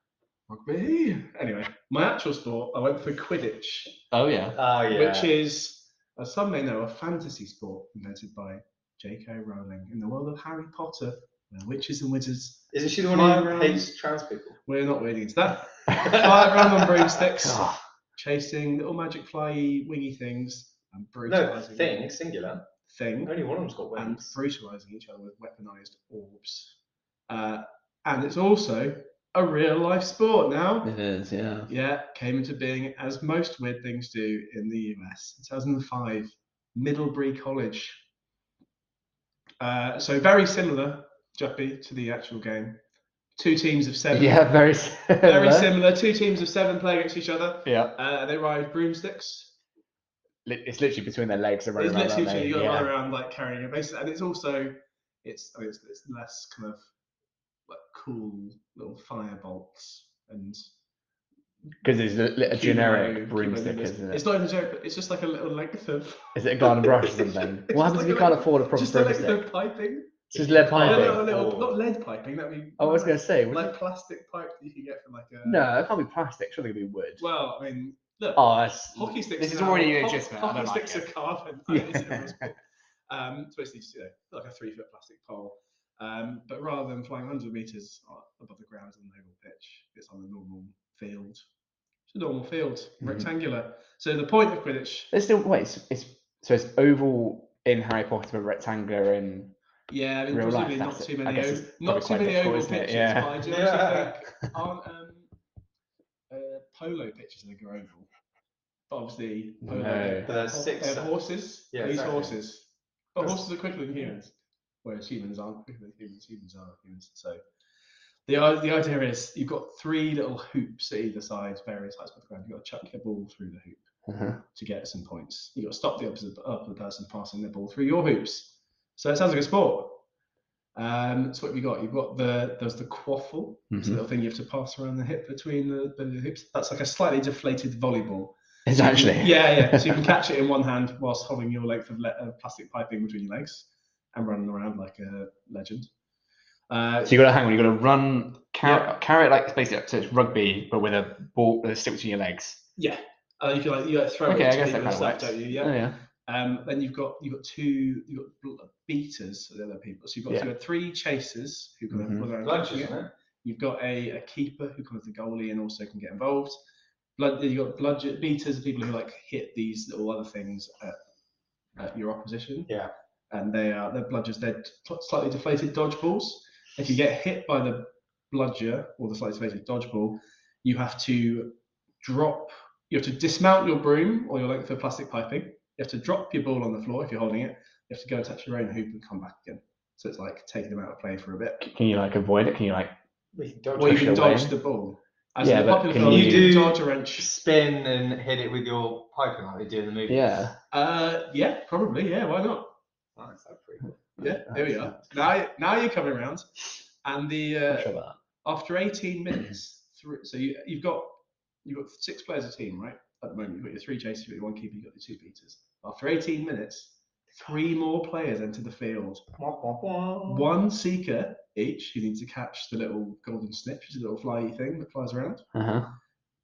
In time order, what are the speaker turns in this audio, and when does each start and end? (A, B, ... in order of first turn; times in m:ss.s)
0:00.5-0:04.0 A
0:04.1-0:04.6 B
0:04.5-0:05.3 C
0:04.9-0:13.9 A
0:12.7-0:14.6 C
0:14.6-0:22.0 A
0:16.0-0:16.7 C
0:17.4-0:17.8 B
0:21.3-0:22.6 C
0:22.9-0:23.3 A
0:23.2-0:24.4 C
0:23.9-0:26.8 A
0:27.3-0:30.9 A
0:30.8-0:31.7 B
0:31.7-0:38.0 A
0:39.6-0:42.8 A
0:43.4-0:44.4 A
0:44.1-0:45.7 B
0:45.2-0:49.5 A
0:47.6-0:48.0 B
0:50.4-0:52.9 B
0:51.8-0:56.9 A
0:57.7-1:00.6 A
1:01.8-1:04.3 B
1:02.4-1:15.8 A
1:06.3-1:09.5 B
1:10.3-1:11.8 C
1:10.3-1:11.3 B
1:12.8-1:13.7 B
1:15.4-1:17.2 B
1:17.2-1:31.4 A
1:18.4-1:21.1 B
1:21.7-1:22.5 B
1:32.1-1:35.1 A
1:33.0-1:33.3 B
1:35.1-1:39.5 B
1:39.9-1:45.3 A
1:40.3-1:43.5 B
1:43.4-1:44.2 C
1:46.3-1:48.1 A
1:48.9-1:57.4 A
1:49.6-1:50.3 B
1:50.2-1:52.3 C
1:58.2-2:03.9 A
2:04.0-2:04.4 B
2:04.5-2:10.0 A
2:10.8-2:25.9 A
2:13.7-2:14.0 B
2:18.6-2:20.1 B
2:26.7-2:27.2 A
2:27.0-2:32.6 B
2:28.6-2:28.9 A
2:32.8-2:46.6 A
2:34.3-2:36.0 B
2:41.9-2:42.3 B
2:42.4-2:43.1 C
2:47.2-2:51.0 A
2:51.8-2:52.7 A
2:53.3-3:11.7 A
3:11.6-3:12.9 B
3:13.3-3:14.2 C
3:13.8-3:17.3 A
3:13.8-3:14.5 B
3:15.4-3:16.5 B
3:16.0-3:20.4 C
3:20.1-3:20.6 B
3:20.7-3:22.7 A
3:23.2-3:24.0 C
3:24.2-3:39.2 A
3:24.2-3:25.0 B
3:27.7-3:28.2 B
3:39.4-3:40.5 C
3:40.2-3:45.4 A
3:45.5-3:46.0 B